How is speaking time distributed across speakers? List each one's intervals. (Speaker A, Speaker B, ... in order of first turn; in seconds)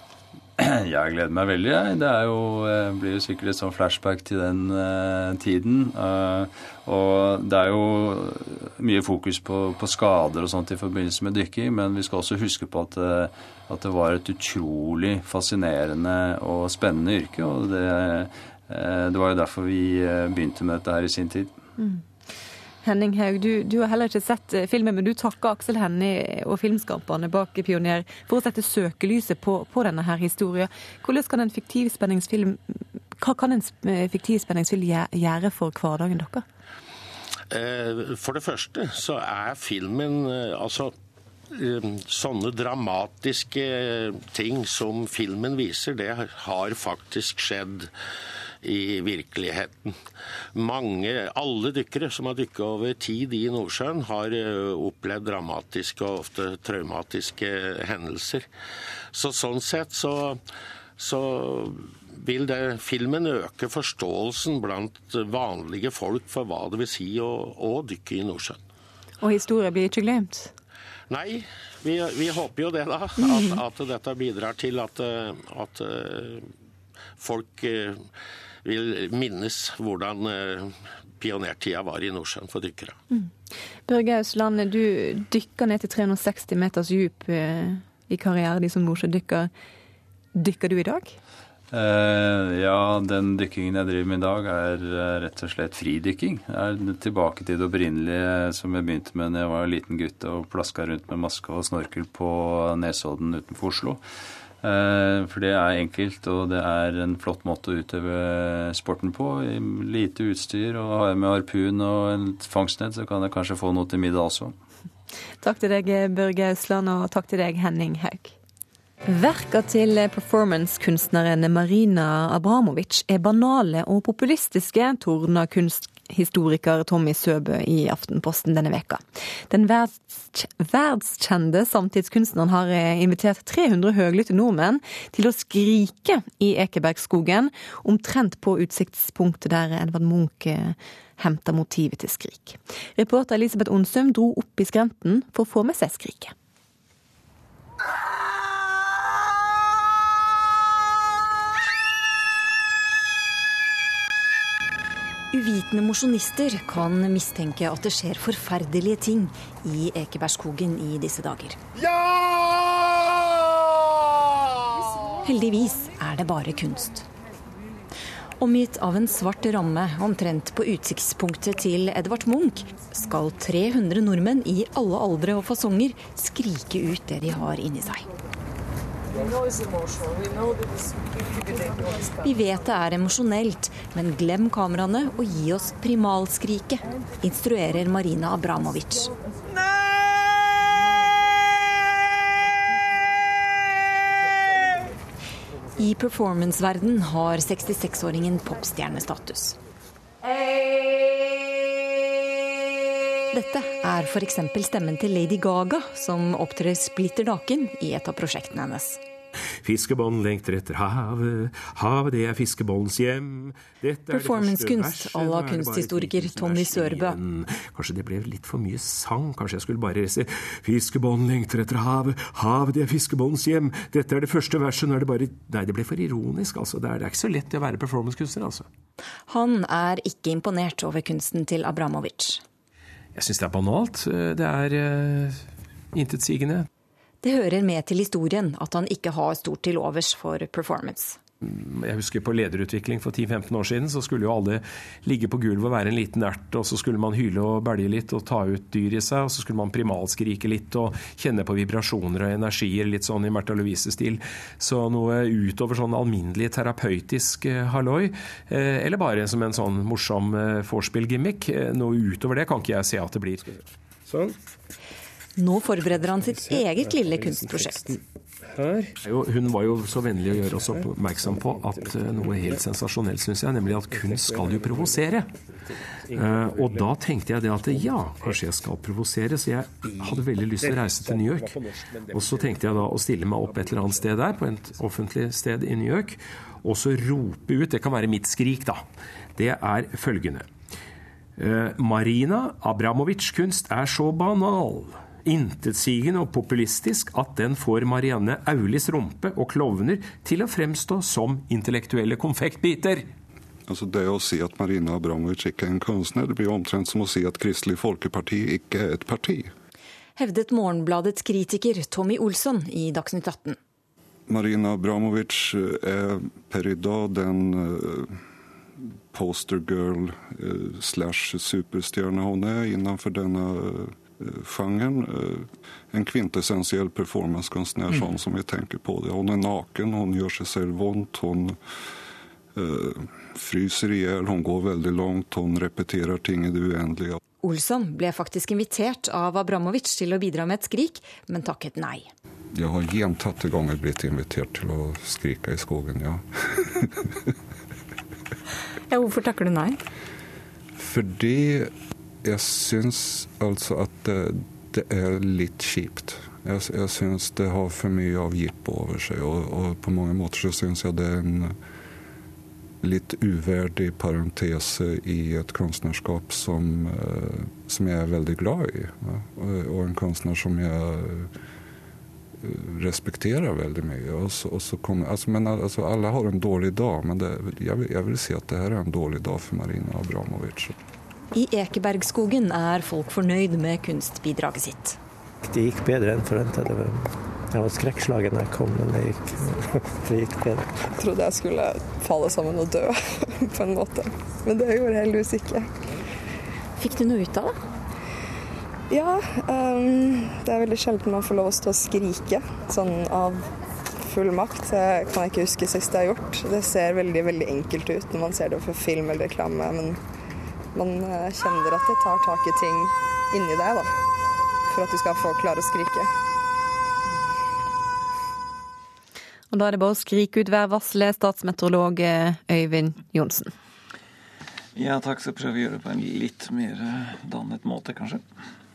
Speaker A: 0.6-21.5, 91.7-104.0, 104.6-114.5
Speaker B: 21.8-22.0, 22.8-36.4, 69.2-70.5, 83.9-89.5, 90.3-91.2, 115.4-118.3, 119.0-146.3, 419.5-423.5
Speaker C: 37.5-40.9, 41.5-47.9, 48.6-50.0, 50.5-58.5, 59.1-60.4, 61.0-68.6, 71.1-76.5, 77.2-78.1, 78.6-83.0
Speaker D: 155.3-161.6, 165.2-167.1, 168.4-178.1, 182.2-189.1, 195.8-199.6, 203.3-209.0, 214.1-217.2, 229.3-232.4, 237.2-241.2, 265.4-267.9, 310.2-313.6, 337.4-342.1, 349.2-349.6, 381.3-385.0, 396.8-397.6
Speaker E: 209.6-228.7, 233.1-236.7, 241.4-263.5, 269.0-275.3, 276.2-281.6, 282.1-290.5, 291.4-303.1
Speaker F: 264.1-264.3, 267.1-267.9, 268.5-268.9, 270.8-272.3, 273.9-275.0, 276.1-276.9, 277.7-278.4, 279.9-282.7, 283.4-284.2, 385.4-390.7
Speaker G: 303.7-309.5, 314.3-318.2, 319.1-331.6, 332.6-337.2, 342.5-346.7, 350.8-351.7, 352.2-361.6, 362.8-371.3, 372.4-380.8
Speaker H: 390.9-395.7, 398.9-410.0, 410.7-414.0, 414.7-416.1
Speaker I: 424.8-428.2